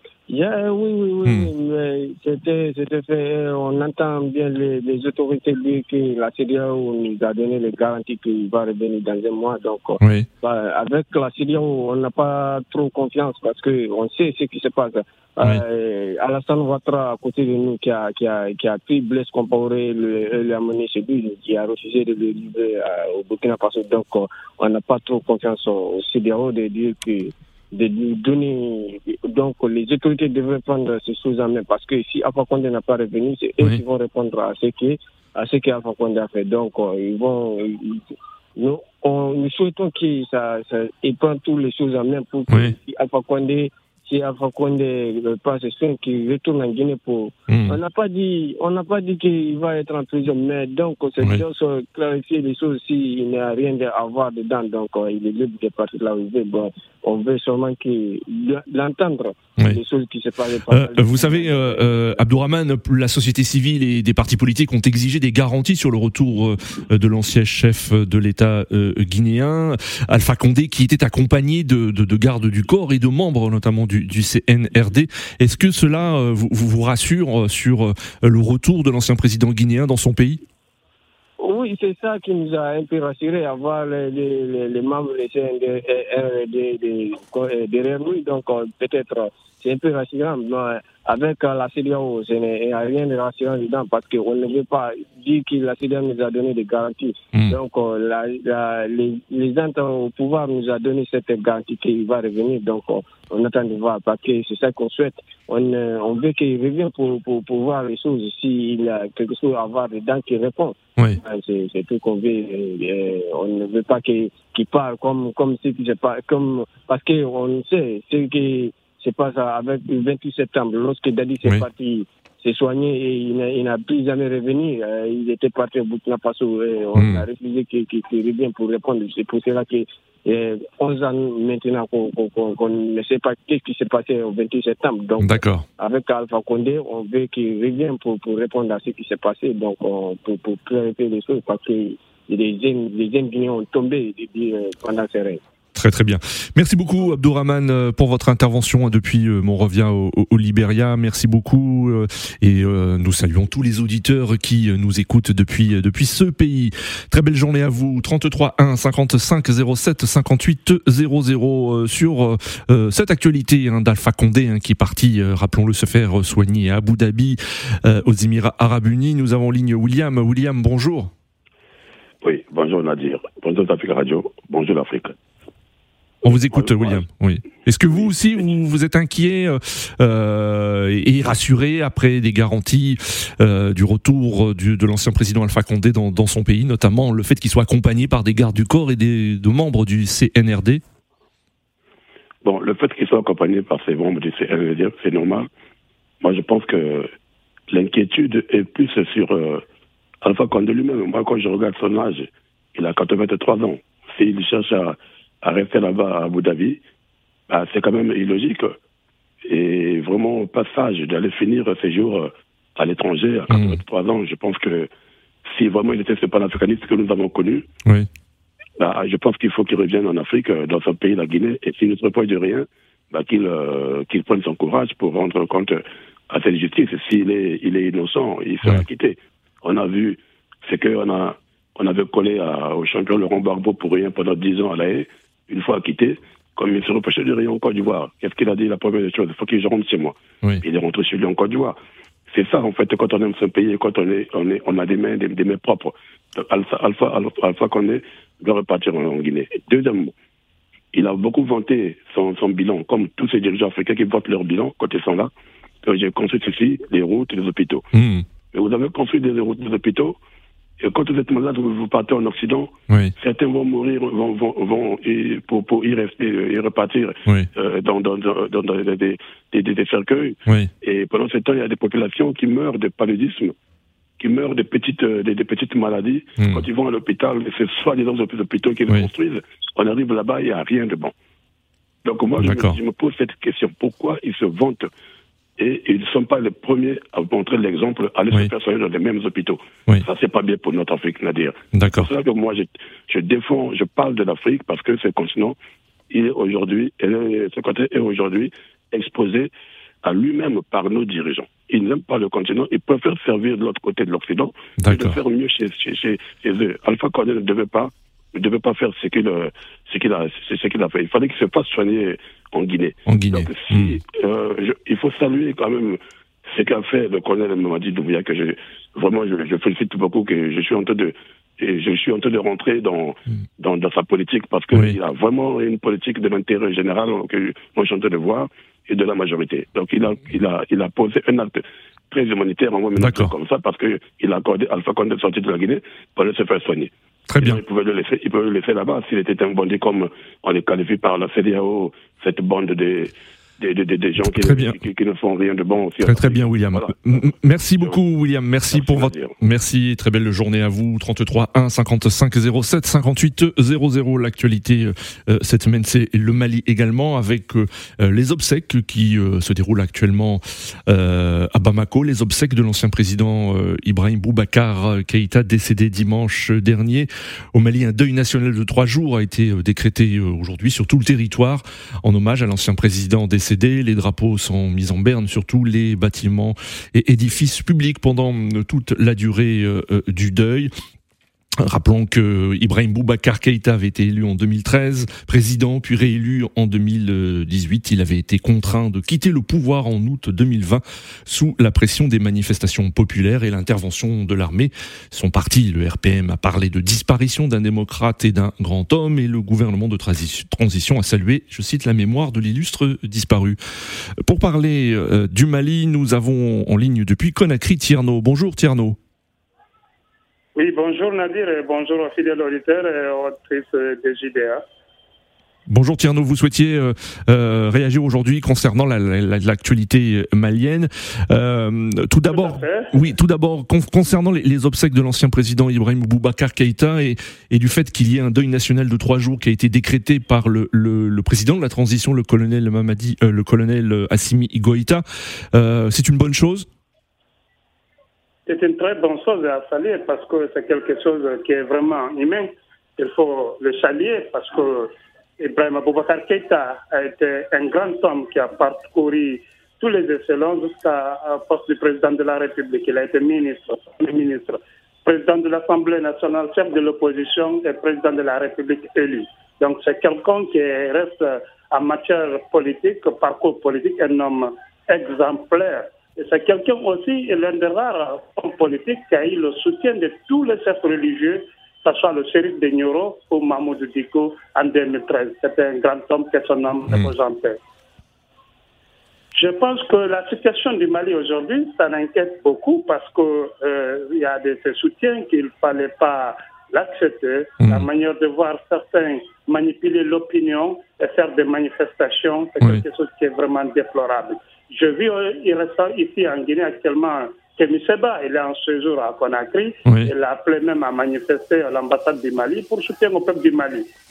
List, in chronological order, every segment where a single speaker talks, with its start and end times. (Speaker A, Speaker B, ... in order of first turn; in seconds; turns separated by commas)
Speaker A: 0.3-38.0, Speaker B: 10.0-10.3, Speaker A: 38.6-62.3, Speaker B: 42.5-42.8, Speaker B: 47.5-47.8, Speaker B: 60.7-80.4, Speaker A: 81.4-145.4, Speaker B: 127.0-127.2, Speaker B: 135.2-135.7, Speaker B: 145.8-171.1, Speaker C: 172.2-175.2, Speaker C: 176.2-177.0, Speaker B: 176.2-190.8, Speaker C: 192.4-195.5, Speaker C: 196.2-197.1, Speaker C: 197.7-199.6, Speaker C: 200.2-206.8, Speaker C: 207.5-208.8, Speaker C: 209.4-214.9, Speaker B: 213.5-213.8, Speaker C: 215.5-217.7, Speaker C: 218.8-241.8, Speaker C: 242.3-250.1, Speaker C: 250.9-255.3, Speaker C: 255.8-257.9, Speaker B: 257.9-258.3, Speaker C: 258.5-260.2, Speaker C: 260.8-273.6, Speaker B: 262.9-263.1, Speaker C: 274.2-281.1, Speaker B: 276.4-276.6, Speaker C: 282.1-284.9, Speaker B: 282.4-282.8, Speaker C: 285.6-295.6, Speaker B: 291.7-292.1, Speaker C: 296.1-299.5, Speaker C: 300.0-348.0, Speaker B: 304.8-305.2, Speaker B: 313.1-314.0, Speaker B: 324.7-325.0, Speaker B: 333.0-333.3, Speaker B: 337.3-337.6, Speaker B: 344.2-344.8, Speaker B: 346.0-380.7, Speaker C: 348.7-349.4, Speaker B: 381.6-403.6, Speaker B: 404.2-409.0, Speaker D: 410.6-414.6, Speaker B: 415.7-436.7, Speaker D: 422.3-422.9, Speaker D: 438.5-477.6, Speaker D: 479.4-503.9, Speaker B: 487.6-487.9, Speaker B: 499.9-500.1